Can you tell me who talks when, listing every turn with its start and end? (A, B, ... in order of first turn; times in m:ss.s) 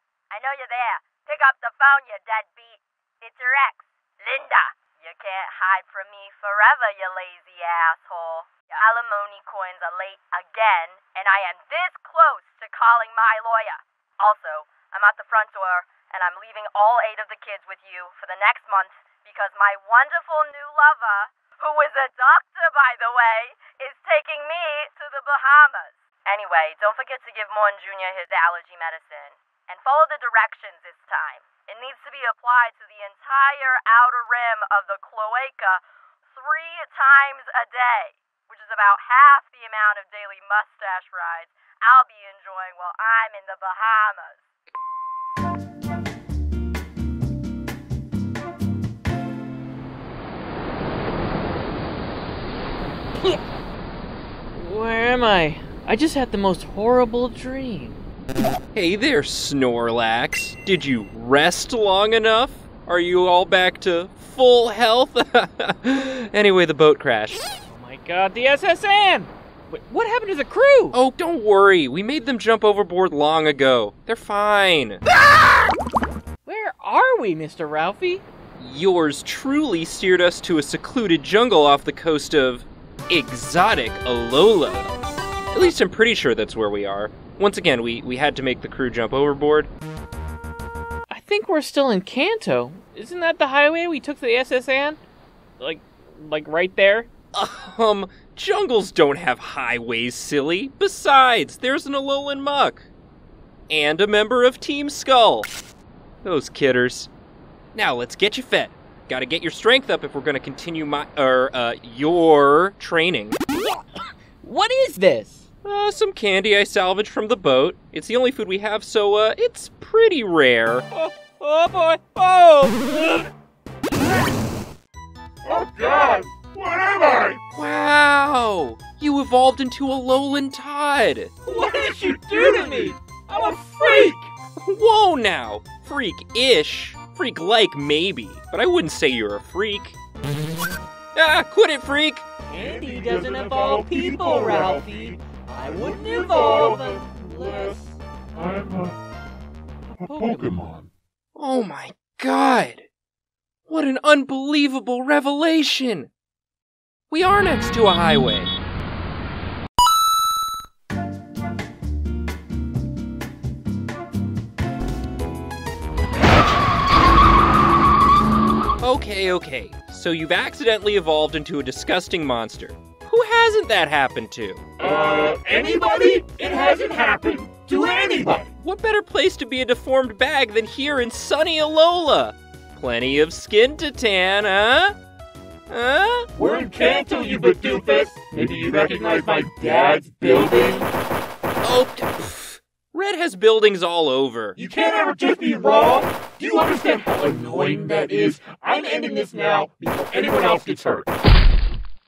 0:00.3-0:44.5 A
0:54.6-0:58.0 B
0:58.7-1:07.4 C
1:07.7-1:10.9 B
1:10.9-1:15.0 C
1:16.4-1:18.2 B
1:18.6-1:25.0 C
1:25.5-1:29.7 C
1:31.1-1:35.0 B
1:35.6-1:37.1 B
1:37.3-1:42.8 C
1:43.7-1:45.5 C
1:46.2-1:47.1 C
1:47.7-1:53.4 C
1:55.6-2:00.8 C
2:01.0-2:03.2 B
2:07.5-2:11.3 C
2:11.5-2:14.1 B
2:14.6-2:20.0 C
2:21.1-2:22.2 C
2:22.6-2:24.8 B
2:30.3-2:30.8 D
2:31.3-2:32.9 C
2:33.7-2:36.1 C
2:37.1-2:38.5 C
2:48.8-2:54.6 C
2:54.9-2:57.5 D
2:58.6-3:05.0 C
3:05.7-3:06.3 C
3:06.4-3:10.8 D
3:11.6-3:14.6 C
3:14.6-3:21.1 D